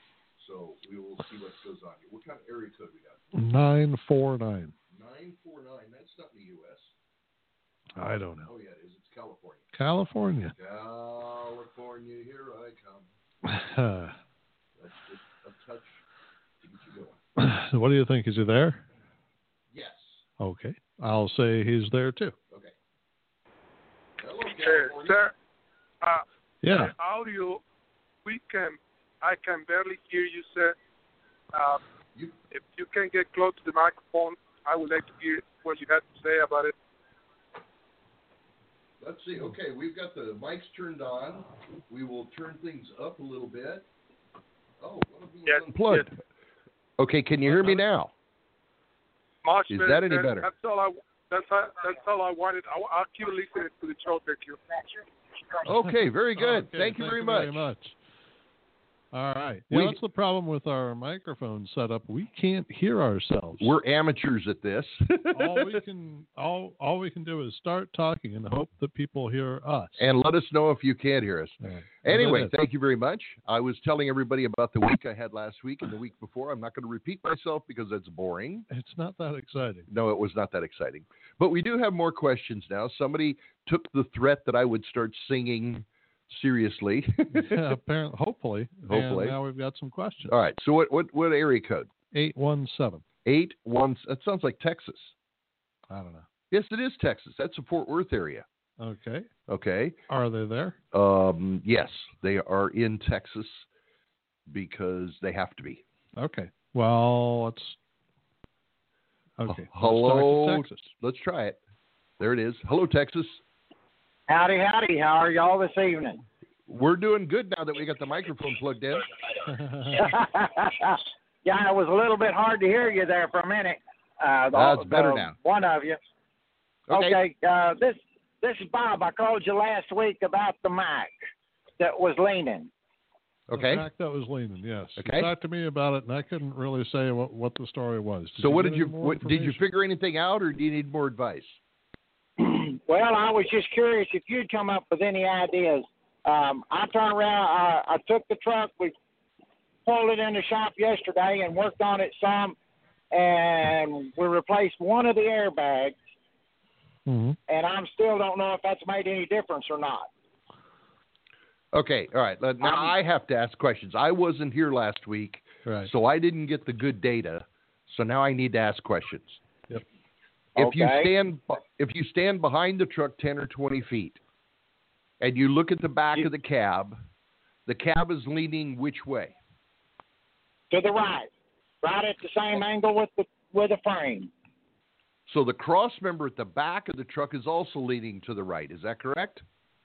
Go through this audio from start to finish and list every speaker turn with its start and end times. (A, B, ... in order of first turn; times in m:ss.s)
0:00.4-0:03.2 A
0:03.4-0:04.7 B
0:04.9-0:06.9 A
0:08.0-0:08.5 B
0:08.4-0:09.7 A
0:09.8-0:10.5 B
0:10.5-0:13.1 A
0:13.4-0:14.2 B
0:14.8-0:16.0 A
0:16.6-0:17.2 A
0:17.4-0:18.8 B
0:19.7-0:20.2 A
0:20.4-0:22.4 B
0:22.5-0:22.8 A
0:24.2-0:25.3 A
0:24.5-0:25.3 C
0:26.0-0:27.6 C
0:26.6-0:26.9 B
0:28.2-0:30.8 C
0:31.5-0:31.8 C
0:32.5-0:36.7 C
0:39.0-0:43.9 A
0:44.8-0:46.1 A
0:45.5-0:46.0 C
0:47.0-0:48.1 A
0:47.5-0:47.8 B
0:49.4-0:54.6 C
0:49.7-0:50.5 A
0:55.7-0:57.6 A
0:56.4-0:58.0 B
0:59.1-1:03.7 B
0:59.7-1:00.0 A
1:03.6-1:05.8 A
1:05.3-1:10.0 B
1:10.0-1:18.7 A
1:11.6-1:12.5 B
1:18.7-1:19.9 B
1:19.9-1:27.7 A
1:27.3-1:30.3 B
1:28.9-1:29.4 A
1:30.3-1:31.9 A
1:32.1-1:33.0 B
1:33.2-1:35.1 A
1:35.9-1:36.3 B
1:36.5-1:38.4 A
1:38.8-1:39.3 B
1:39.5-1:40.0 A
1:40.1-1:40.8 B
1:40.9-1:43.6 A
1:44.5-1:45.8 A
1:46.2-1:47.8 B
1:49.4-1:50.9 B
1:49.5-1:51.6 A
1:52.2-1:53.4 A
1:54.3-1:56.2 D
1:56.7-1:59.1 A
1:59.5-2:00.1 B
2:00.0-2:06.0 D
2:04.5-2:05.4 A
2:06.9-2:07.2 A
2:06.9-2:11.1 D
2:11.8-2:12.7 D
2:13.5-2:13.9 A
2:13.5-2:19.6 B
2:15.0-2:15.3 A
2:18.4-2:21.6 A
2:22.4-2:28.9 D
2:29.8-2:32.6 D
2:33.1-2:36.0 D
2:37.1-2:37.4 B
2:37.5-2:40.1 D
2:41.7-2:49.4 A
2:42.6-2:42.9 D
2:45.6-2:45.9 B
2:50.6-2:51.1 D
2:50.6-2:54.2 A
2:55.2-2:57.0 A
2:57.7-2:59.4 A
3:00.7-3:01.3 D
3:01.8-3:04.3 D
3:05.3-3:09.4 A